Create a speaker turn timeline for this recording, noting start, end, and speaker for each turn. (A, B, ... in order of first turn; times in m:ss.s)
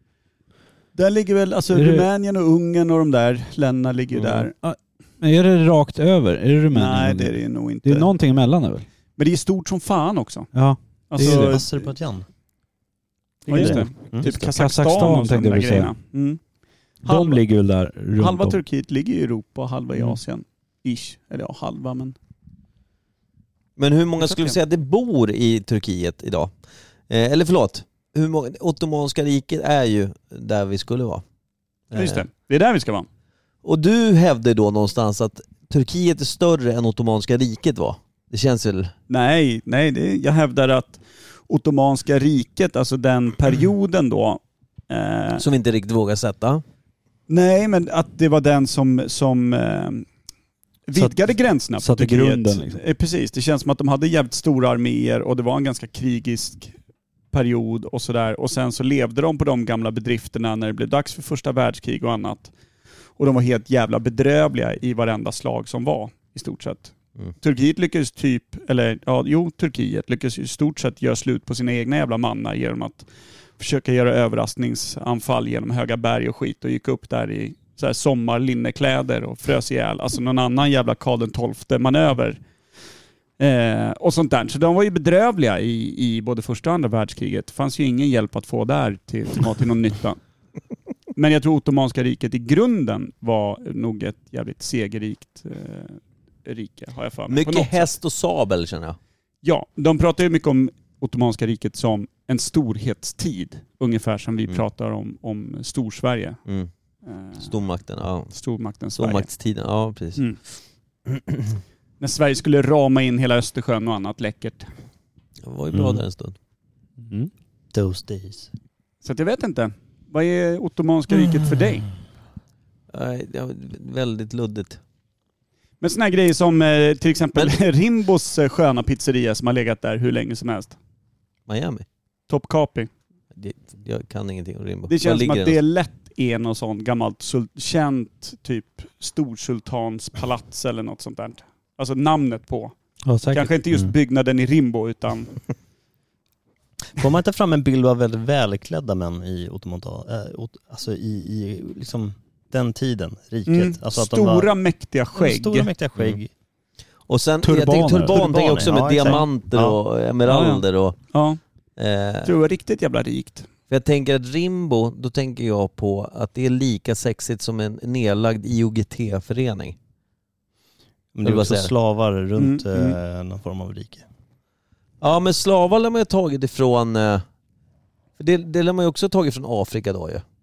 0:01.0-0:04.5 A
0:01.7-0:02.1 B
0:04.2-0:04.5 C
0:04.6-0:08.9 B
0:06.7-0:08.1 A
0:09.2-0:10.5 A
0:10.5-0:11.6 B
0:11.1-0:11.9 A
0:11.2-0:12.3 D
0:13.5-0:14.3 D
0:13.5-0:16.4 A
0:13.5-0:16.0 B
0:17.0-0:17.4 A
0:17.0-0:18.6 B
0:18.2-0:22.2 A
0:23.8-0:26.5 C
0:24.2-0:24.6 A
0:27.1-0:31.2 C
0:31.9-0:32.2 C
0:31.9-0:33.1 A
0:33.6-0:38.9 C
0:39.1-0:45.4 A
0:45.4-0:46.6 C
0:47.3-0:50.1 A
0:50.9-0:56.7 A
0:51.0-0:52.8 B
0:57.3-1:02.5 A
1:03.2-1:22.4 A
1:23.4-1:30.2 A
1:31.2-1:38.0 A
1:37.3-1:39.0 C
1:39.4-1:46.4 A
1:47.0-1:47.5 A
1:47.4-1:48.3 C
1:48.3-1:49.3 A
1:49.0-1:50.3 C
1:52.0-1:54.7 A
1:55.4-1:56.4 C
1:57.0-1:57.3 B
1:57.7-1:58.5 D
1:59.0-2:01.9 A
2:02.9-2:04.8 C
2:05.8-2:10.8 A
2:11.5-2:11.9 C
2:12.3-2:12.9 A
2:13.4-2:15.6 C
2:14.9-2:22.7 A
2:23.1-2:23.6 B
2:23.3-2:25.4 A
2:26.9-2:34.5 D
2:33.5-2:35.7 A
2:35.1-2:36.3 D
2:37.1-2:41.0 C
2:37.4-2:38.3 B
2:38.1-2:39.8 D
2:40.3-2:41.4 A
2:41.8-2:42.3 C
2:42.2-2:43.5 A
2:43.7-2:49.8 C
2:51.2-2:54.0 D
2:51.2-2:51.7 C
2:52.4-2:53.0 A
2:55.0-2:57.2 C
2:58.2-3:00.2 C